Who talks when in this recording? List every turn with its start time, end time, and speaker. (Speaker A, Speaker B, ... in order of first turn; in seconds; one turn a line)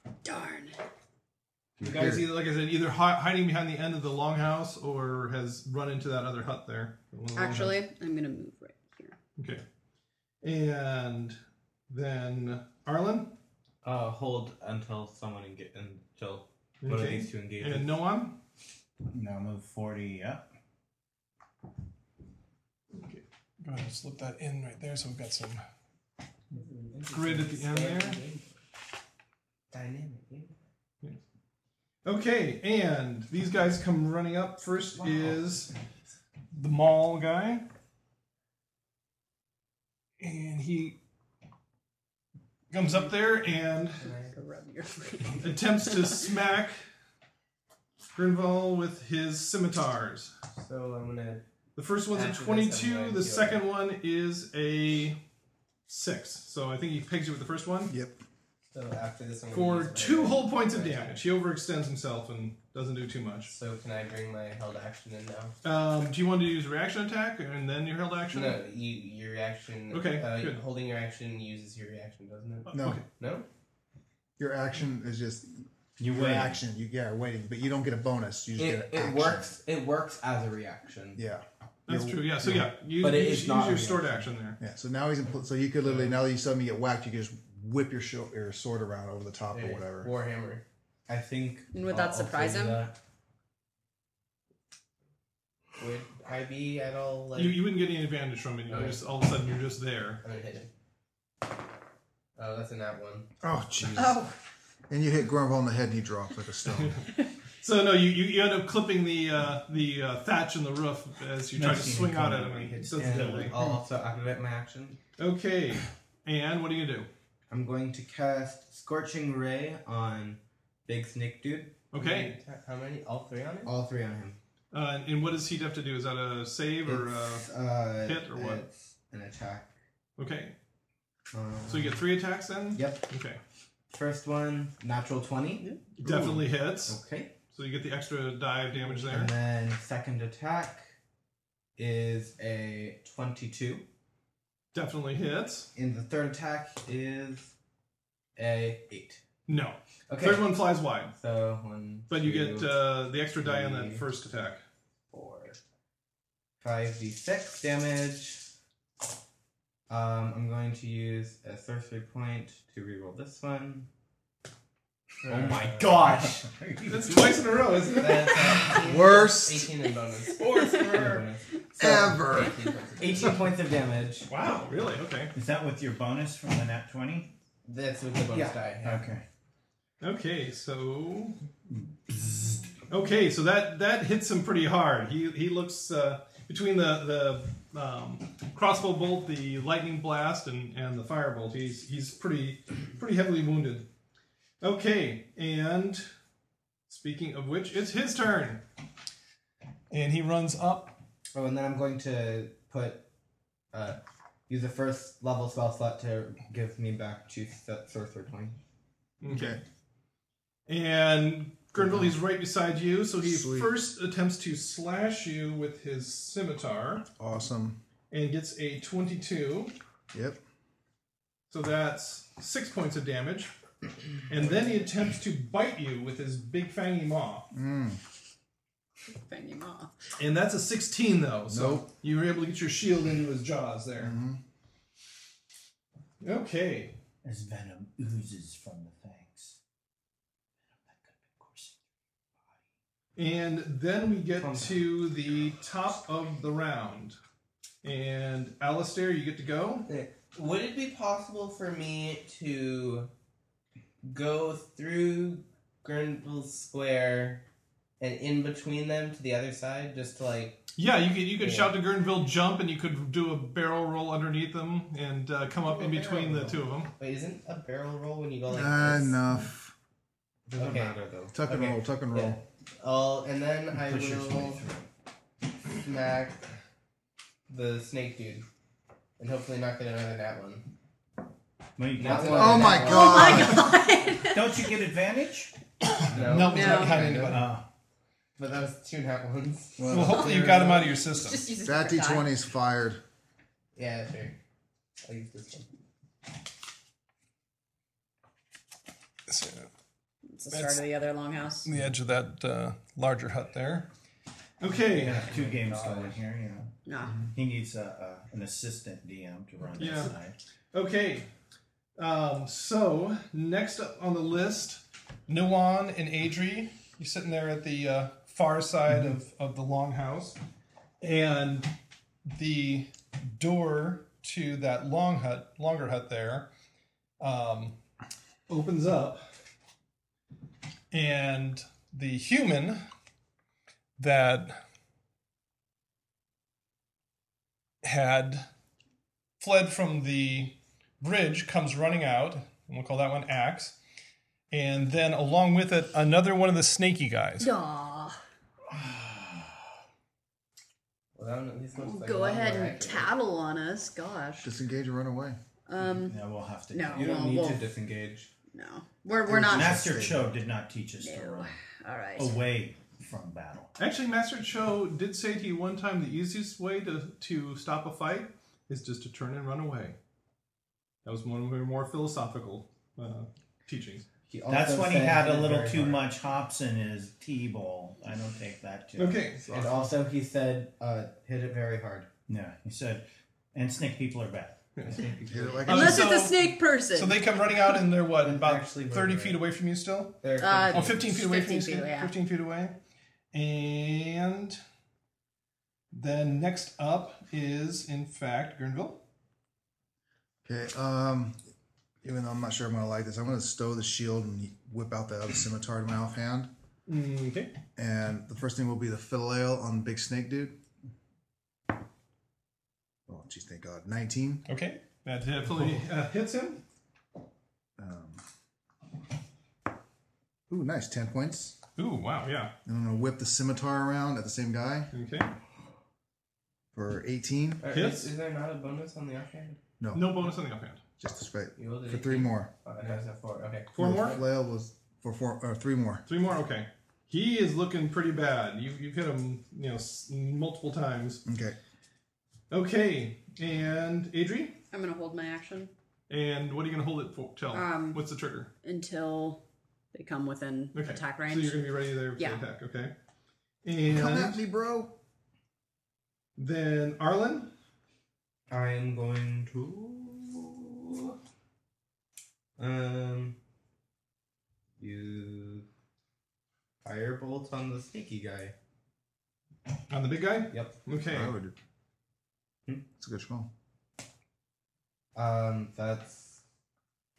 Speaker A: 0.2-0.8
Speaker B: 1.8-2.3
Speaker C: 1.8-7.8
Speaker D: 1.9-2.1
Speaker A: 7.3-9.2
Speaker C: 9.4-9.6
Speaker C: 10.4-11.4
Speaker C: 11.9-13.3
Speaker D: 13.8-18.0
Speaker C: 16.8-18.4
Speaker E: 19.1-20.5
Speaker C: 22.9-25.6
Speaker F: 26.5-28.6
Speaker C: 27.1-28.2
Speaker F: 29.7-30.6
Speaker C: 32.0-35.7
Speaker F: 35.0-35.4
Speaker C: 36.5-37.7
Speaker C: 40.2-41.0
Speaker C: 42.7-44.1
Speaker F: 44.0-44.4
Speaker A: 44.3-46.2
Speaker C: 45.4-46.8
Speaker C: 48.1-50.3
Speaker F: 50.5-51.4
Speaker C: 51.8-55.2
Speaker F: 52.1-53.6
Speaker C: 55.9-57.9
Speaker B: 57.9-58.2
Speaker F: 58.7-61.2
Speaker C: 59.5-63.5
Speaker F: 63.5-65.5
Speaker C: 65.6-68.6
Speaker F: 68.3-73.5
Speaker C: 69.9-70.6
Speaker C: 72.7-73.0
Speaker B: 72.7-73.0
Speaker B: 74.4-79.5
Speaker E: 76.0-76.6
Speaker D: 78.6-81.2
Speaker B: 81.2-82.7
Speaker C: 81.9-84.6
Speaker D: 83.0-84.3
Speaker B: 84.6-90.1
Speaker F: 85.8-86.1
Speaker F: 89.5-90.6
Speaker D: 91.1-93.0
Speaker A: 91.7-92.8
Speaker F: 95.8-97.6
Speaker C: 97.3-100.2
Speaker F: 98.7-99.0
Speaker F: 100.2-100.7
Speaker F: 102.4-103.3
Speaker B: 103.4-104.2
Speaker A: 103.9-104.3
Speaker B: 104.9-107.0
Speaker C: 106.7-107.0
Speaker C: 107.6-113.5
Speaker E: 111.5-113.7
Speaker D: 113.0-115.0
Speaker C: 115.2-117.1
Speaker D: 117.5-121.9
Speaker C: 121.9-122.4
Speaker F: 122.0-123.7
Speaker D: 123.7-124.4
Speaker C: 124.7-127.5
Speaker D: 126.9-129.7
Speaker C: 128.0-128.6
Speaker C: 130.2-130.6
Speaker D: 131.3-132.1
Speaker C: 131.7-133.4
Speaker D: 132.7-133.0
Speaker D: 133.9-137.3
Speaker C: 136.0-137.0
Speaker C: 137.5-139.3
Speaker D: 138.7-140.9
Speaker D: 141.8-143.8
Speaker C: 144.7-145.7
Speaker D: 145.8-147.5
Speaker D: 148.4-149.2
Speaker C: 149.5-151.1
Speaker D: 150.1-152.8
Speaker C: 152.1-154.6
Speaker D: 153.4-154.1
Speaker D: 155.1-155.6
Speaker D: 156.6-158.4
Speaker D: 159.9-163.9
Speaker F: 165.2-166.0
Speaker D: 165.2-166.5
Speaker E: 166.0-167.4
Speaker C: 166.9-168.7
Speaker F: 167.8-173.5
Speaker B: 168.8-169.7
Speaker D: 170.4-172.2
Speaker B: 171.8-172.5
Speaker D: 173.0-174.3
Speaker C: 174.3-175.3
Speaker E: 175.3-177.3
Speaker F: 177.7-179.1
Speaker D: 178.3-178.6
Speaker E: 178.8-179.2
Speaker C: 180.0-181.4
Speaker E: 181.7-182.7
Speaker C: 182.9-193.9
Speaker C: 194.6-196.1
Speaker C: 196.9-198.6
Speaker C: 199.9-201.0
Speaker D: 201.3-203.1
Speaker D: 203.7-208.6
Speaker C: 209.2-209.6
Speaker B: 209.3-209.6
Speaker C: 210.7-217.1
Speaker B: 211.8-212.1
Speaker B: 213.2-213.7
Speaker B: 217.2-217.8
Speaker C: 218.1-219.8
Speaker B: 220.1-220.4
Speaker C: 221.5-223.5
Speaker C: 224.3-227.5
Speaker B: 227.5-228.0
Speaker A: 229.1-229.9
Speaker C: 230.2-234.2
Speaker B: 231.5-231.9
Speaker B: 234.0-234.4
Speaker C: 236.2-237.0
Speaker E: 237.2-239.6
Speaker E: 240.8-241.8
Speaker C: 243.2-247.2
Speaker D: 244.3-244.9
Speaker C: 247.8-249.9
Speaker F: 249.9-253.1
Speaker F: 254.0-257.4
Speaker F: 258.0-260.6
Speaker C: 260.8-266.9
Speaker F: 261.4-261.8
Speaker F: 265.6-269.2
Speaker B: 268.5-269.7
Speaker D: 270.5-271.4
Speaker F: 270.6-274.6
Speaker B: 271.3-272.4
Speaker E: 273.7-274.9
Speaker F: 275.7-276.4
Speaker F: 277.5-278.5
Speaker F: 279.2-280.7
Speaker E: 281.8-282.7
Speaker D: 282.0-283.1
Speaker F: 282.0-283.5
Speaker B: 282.4-283.6
Speaker A: 282.8-284.6
Speaker E: 284.2-285.5
Speaker C: 286.1-287.5
Speaker F: 286.1-287.4
Speaker A: 286.5-287.0
Speaker E: 287.1-287.6
Speaker F: 288.4-290.9
Speaker E: 289.8-290.2
Speaker C: 289.9-291.4
Speaker B: 289.9-290.3
Speaker A: 290.0-290.4
Speaker A: 291.0-292.3
Speaker B: 291.6-293.0
Speaker F: 293.8-294.4
Speaker F: 295.0-295.7
Speaker C: 299.3-299.7
Speaker A: 300.3-301.7
Speaker C: 300.5-300.8
Speaker C: 301.6-303.9
Speaker C: 304.6-305.2
Speaker E: 304.9-306.7
Speaker F: 305.1-306.1
Speaker D: 305.3-306.1
Speaker A: 306.9-307.1
Speaker E: 307.3-310.4
Speaker C: 309.8-310.1
Speaker C: 310.7-311.3
Speaker C: 312.0-320.4
Speaker C: 321.0-321.7
Speaker C: 322.3-326.5
Speaker C: 327.2-327.8
Speaker C: 328.5-329.2
Speaker C: 330.9-332.8
Speaker C: 334.0-334.6
Speaker C: 337.8-338.5
Speaker C: 339.4-343.8
Speaker C: 344.5-347.5
Speaker A: 347.4-348.2
Speaker E: 348.7-349.5
Speaker F: 351.1-353.1
Speaker A: 351.8-354.5
Speaker B: 354.4-355.4
Speaker A: 355.7-356.2
Speaker E: 355.9-357.2
Speaker A: 356.7-357.6
Speaker D: 356.9-358.3
Speaker A: 358.5-359.9
Speaker B: 359.3-360.3
Speaker E: 359.5-361.5
Speaker A: 361.0-362.4
Speaker E: 362.2-363.7
Speaker C: 363.8-370.0
Speaker C: 371.1-374.0
Speaker D: 374.3-376.1
Speaker E: 374.5-379.3
Speaker C: 379.0-379.8
Speaker D: 379.5-382.1
Speaker E: 382.3-384.6
Speaker C: 384.8-385.1
Speaker D: 384.8-385.9
Speaker B: 385.3-386.1
Speaker C: 385.7-390.2
Speaker A: 385.7-387.2
Speaker D: 388.2-389.4
Speaker D: 390.2-391.0
Speaker A: 390.4-392.1
Speaker C: 390.7-392.8
Speaker C: 393.3-394.6
Speaker C: 395.9-399.0
Speaker B: 400.4-401.4
Speaker B: 402.0-406.5
Speaker C: 406.9-407.5
Speaker B: 407.8-410.6
Speaker B: 413.1-414.4
Speaker C: 414.5-416.6
Speaker B: 417.8-418.2
Speaker B: 420.5-421.6
Speaker C: 421.8-422.5
Speaker B: 422.7-424.9
Speaker C: 424.9-425.4
Speaker B: 426.8-427.6
Speaker F: 427.6-429.6
Speaker C: 427.7-428.1
Speaker B: 429.8-430.2
Speaker C: 429.9-430.8
Speaker B: 431.0-432.5
Speaker F: 431.6-434.2
Speaker C: 433.8-434.2
Speaker B: 433.8-436.0
Speaker C: 436.1-441.2
Speaker B: 441.3-441.6
Speaker C: 442.5-444.6
Speaker A: 444.7-445.7
Speaker C: 446.1-448.5
Speaker A: 447.5-448.0
Speaker A: 448.6-449.4
Speaker A: 449.9-451.6
Speaker C: 450.7-452.9
Speaker C: 453.6-454.4
Speaker B: 453.9-454.9
Speaker C: 456.4-457.5
Speaker D: 458.5-461.2
Speaker D: 462.6-463.4
Speaker D: 464.8-465.6
Speaker D: 466.8-468.5
Speaker C: 469.9-471.4
Speaker D: 470.5-470.8
Speaker B: 471.1-471.6
Speaker B: 473.0-473.5
Speaker D: 475.1-476.4